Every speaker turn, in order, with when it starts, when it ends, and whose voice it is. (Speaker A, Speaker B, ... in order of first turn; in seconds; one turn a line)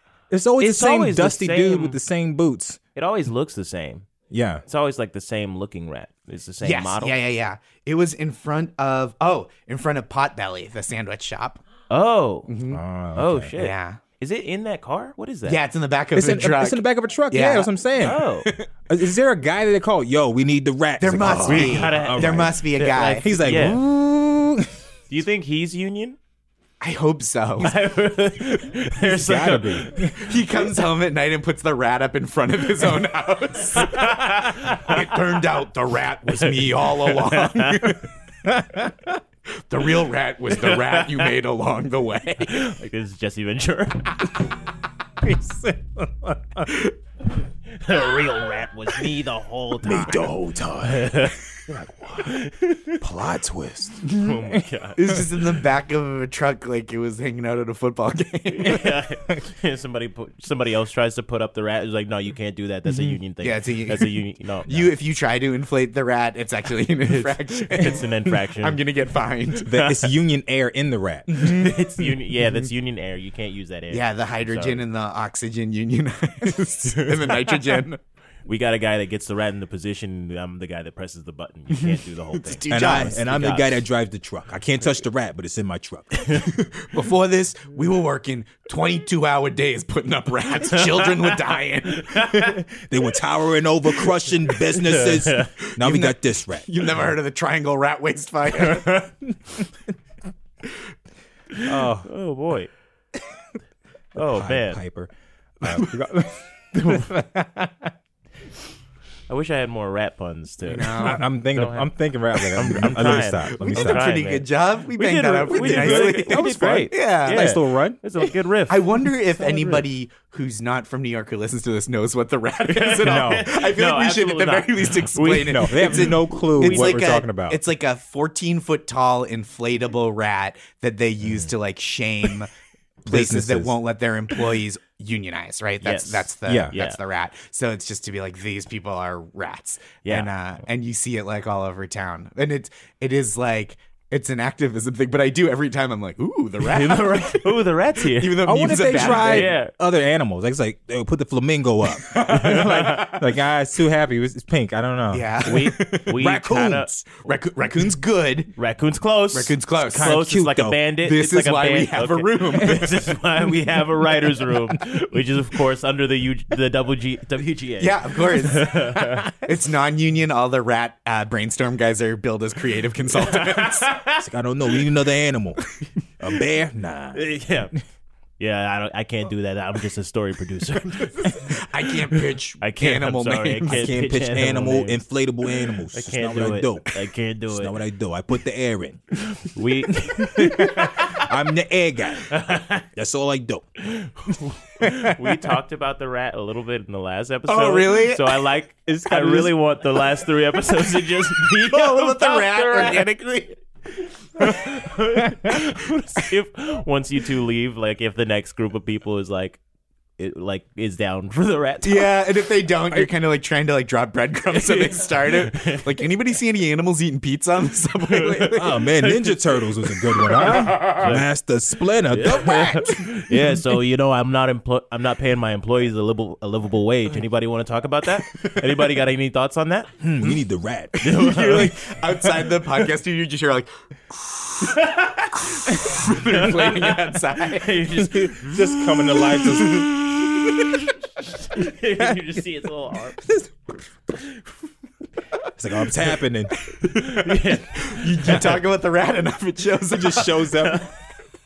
Speaker A: 0.3-2.8
Speaker B: 0.6-2.0
Speaker B: 2.9-4.1
Speaker A: 4.3-4.6
Speaker B: 4.7-7.2
Speaker C: 6.6-11.6
Speaker B: 11.9-12.5
Speaker C: 12.5-12.8
Speaker A: 12.7-13.5
Speaker B: 13.1-15.6
Speaker C: 13.6-14.0
Speaker C: 15.4-18.7
Speaker A: 16.1-18.2
Speaker B: 18.0-18.5
Speaker A: 18.9-24.7
Speaker C: 21.0-23.2
Speaker B: 21.4-23.8
Speaker B: 25.1-26.2
Speaker C: 26.8-27.7
Speaker B: 27.6-30.0
Speaker A: 29.0-30.3
Speaker C: 30.1-38.0
Speaker B: 33.7-35.1
Speaker B: 36.3-38.0
Speaker A: 38.4-39.2
Speaker C: 39.7-42.7
Speaker B: 40.5-41.3
Speaker B: 42.4-44.1
Speaker A: 45.2-46.8
Speaker B: 47.7-53.0
Speaker A: 49.8-52.4
Speaker A: 53.0-54.6
Speaker B: 54.1-55.2
Speaker C: 55.0-58.9
Speaker B: 58.5-64.9
Speaker C: 63.4-64.1
Speaker C: 64.6-69.7
Speaker B: 67.7-68.8
Speaker A: 69.6-71.7
Speaker B: 69.7-70.1
Speaker B: 71.3-74.8
Speaker C: 71.4-71.7
Speaker C: 73.9-78.0
Speaker B: 77.0-77.8
Speaker B: 78.4-83.8
Speaker C: 81.9-83.2
Speaker A: 82.7-86.5
Speaker C: 86.5-92.2
Speaker B: 90.6-92.6
Speaker A: 92.2-96.7
Speaker B: 94.7-95.5
Speaker C: 95.7-99.0
Speaker B: 98.5-99.1
Speaker B: 101.5-102.7
Speaker A: 101.6-102.1
Speaker B: 104.1-104.8
Speaker A: 104.2-105.1
Speaker A: 105.6-107.9
Speaker C: 105.6-105.9
Speaker B: 109.3-119.8
Speaker C: 110.7-111.2
Speaker A: 110.8-114.1
Speaker C: 113.0-117.5
Speaker A: 115.5-118.0
Speaker C: 118.7-132.5
Speaker B: 122.7-127.0
Speaker A: 123.0-123.5
Speaker A: 125.4-127.6
Speaker C: 133.0-149.5
Speaker A: 133.1-133.7
Speaker B: 135.8-137.0
Speaker A: 136.4-136.7
Speaker B: 146.7-149.7
Speaker A: 148.4-157.0
Speaker C: 152.1-153.2
Speaker B: 152.2-153.1
Speaker C: 155.1-156.1
Speaker B: 155.4-156.9
Speaker C: 157.1-158.5
Speaker B: 158.6-169.3
Speaker C: 159.3-160.2
Speaker A: 159.9-160.8
Speaker C: 161.0-162.9
Speaker C: 167.8-174.0
Speaker B: 173.2-174.2
Speaker A: 174.1-175.6
Speaker A: 176.2-177.2
Speaker B: 177.1-177.7
Speaker B: 178.4-181.5
Speaker C: 180.9-183.9
Speaker B: 182.2-185.0
Speaker A: 183.6-186.9
Speaker B: 185.9-187.7
Speaker A: 187.5-189.0
Speaker B: 189.2-191.2
Speaker A: 189.9-192.3
Speaker B: 192.2-192.8
Speaker A: 192.9-193.7
Speaker B: 193.8-203.4
Speaker A: 194.8-195.2
Speaker C: 197.5-198.4
Speaker A: 198.9-199.5
Speaker C: 201.7-203.5
Speaker B: 204.3-209.6
Speaker B: 210.2-212.2
Speaker C: 211.8-218.8
Speaker B: 214.5-215.9
Speaker B: 218.1-221.3
Speaker A: 218.5-223.6
Speaker B: 222.1-229.9
Speaker A: 230.0-231.3
Speaker B: 231.0-231.9
Speaker C: 231.0-237.9
Speaker B: 234.6-239.9
Speaker A: 238.1-239.9
Speaker C: 239.7-239.9
Speaker B: 241.2-243.2
Speaker A: 243.2-243.5
Speaker A: 245.6-246.6
Speaker C: 246.7-250.6
Speaker B: 246.9-248.6
Speaker A: 249.9-250.8
Speaker B: 250.6-250.9